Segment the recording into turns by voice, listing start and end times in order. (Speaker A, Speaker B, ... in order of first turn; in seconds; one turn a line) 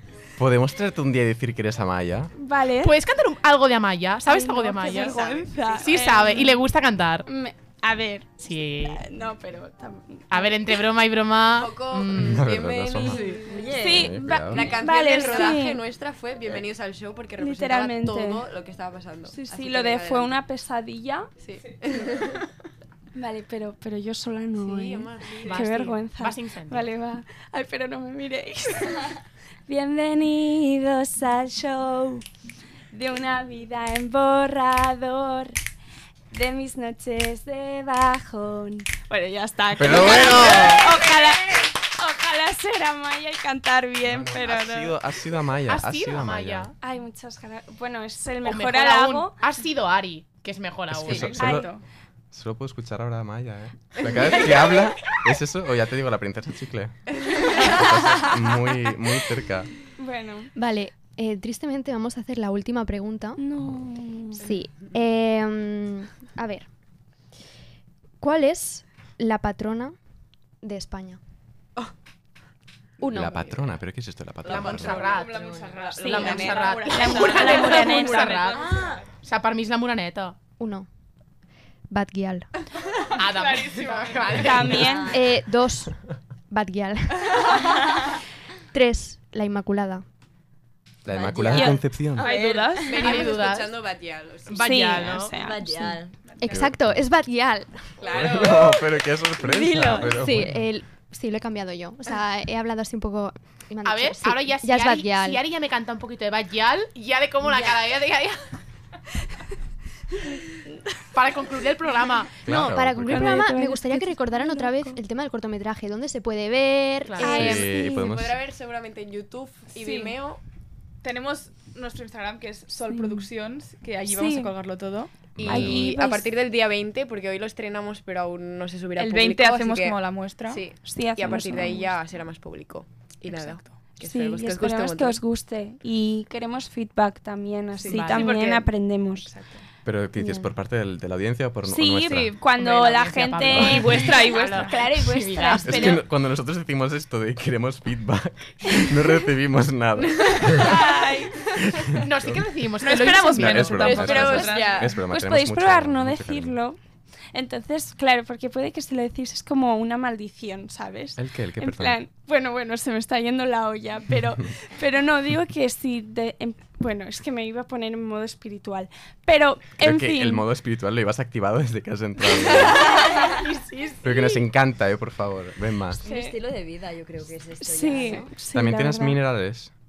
Speaker A: 0.4-2.3
Speaker B: 2.4-3.0
Speaker C: 2.8-7.3
Speaker B: 4.2-6.6
Speaker D: 5.1-5.5
Speaker B: 7.3-10.8
Speaker C: 8.4-9.0
Speaker C: 10.3-12.5
Speaker D: 11.5-13.7
Speaker A: 12.1-13.2
Speaker E: 13.0-14.8
Speaker B: 13.2-15.8
Speaker A: 13.9-14.7
Speaker D: 14.5-20.4
Speaker B: 17.4-18.4
Speaker B: 19.3-21.3
Speaker D: 21.4-22.4
Speaker B: 23.1-32.2
Speaker D: 24.6-25.6
Speaker C: 25.4-26.9
Speaker B: 32.9-35.6
Speaker B: 36.3-45.0
Speaker A: 39.8-40.9
Speaker F: 40.0-40.8
Speaker A: 44.0-46.7
Speaker C: 45.6-46.7
Speaker B: 46.8-49.3
Speaker C: 48.4-51.6
Speaker A: 50.9-51.7
Speaker F: 51.1-51.7
Speaker B: 51.2-51.8
Speaker A: 52.3-59.7
Speaker B: 60.0-60.5
Speaker G: 60.5-63.4
Speaker B: 63.4-64.4
Speaker G: 64.4-66.7
Speaker G: 68.2-69.9
Speaker G: 70.6-71.2
Speaker G: 73.0-73.5
Speaker A: 73.1-75.1
Speaker C: 74.4-80.4
Speaker F: 74.7-79.0
Speaker E: 75.1-76.5
Speaker D: 76.0-76.8
Speaker B: 76.3-78.5
Speaker E: 78.5-79.0
Speaker G: 80.6-80.9
Speaker G: 81.9-82.5
Speaker C: 83.1-85.0
Speaker F: 83.3-84.4
Speaker B: 84.3-85.2
Speaker E: 84.5-85.3
Speaker G: 85.1-86.0
Speaker G: 86.5-87.5
Speaker G: 88.7-90.0
Speaker A: 91.0-92.3
Speaker E: 91.0-93.2
Speaker B: 91.5-91.8
Speaker F: 92.1-93.3
Speaker D: 92.8-95.2
Speaker C: 92.9-93.8
Speaker C: 94.5-95.3
Speaker B: 94.6-95.9
Speaker E: 95.4-96.2
Speaker G: 96.4-98.0
Speaker A: 96.5-97.0
Speaker D: 98.0-98.9
Speaker A: 98.0-100.6
Speaker G: 99.3-105.4
Speaker C: 103.8-108.4
Speaker C: 111.1-112.4
Speaker A: 112.4-113.5
Speaker G: 112.4-117.2
Speaker B: 113.0-115.0
Speaker C: 117.0-117.7
Speaker B: 117.2-118.1
Speaker A: 117.2-118.4
Speaker D: 117.4-120.4
Speaker F: 119.8-120.2
Speaker F: 121.0-126.2
Speaker B: 122.9-123.3
Speaker B: 124.1-124.5
Speaker A: 125.4-125.9
Speaker D: 125.4-135.2
Speaker B: 125.5-126.3
Speaker F: 128.9-130.7
Speaker B: 130.8-131.9
Speaker B: 134.0-139.3
Speaker F: 137.8-138.6
Speaker C: 137.8-138.4
Speaker D: 137.8-138.5
Speaker F: 139.2-139.6
Speaker A: 139.8-142.3
Speaker B: 141.6-146.0
Speaker C: 142.5-146.0
Speaker F: 143.5-144.9
Speaker A: 145.6-150.9
Speaker B: 150.5-151.6
Speaker A: 151.5-152.5
Speaker C: 152.0-154.0
Speaker F: 152.8-155.0
Speaker A: 153.3-156.6
Speaker D: 153.7-155.0
Speaker B: 155.0-156.8
Speaker B: 157.3-170.4
Speaker A: 161.2-162.0
Speaker A: 169.8-172.8
Speaker B: 172.3-174.4
Speaker C: 172.8-174.0
Speaker A: 174.0-176.0
Speaker E: 175.9-178.3
Speaker B: 176.0-176.4
Speaker B: 177.6-179.2
Speaker A: 178.5-179.7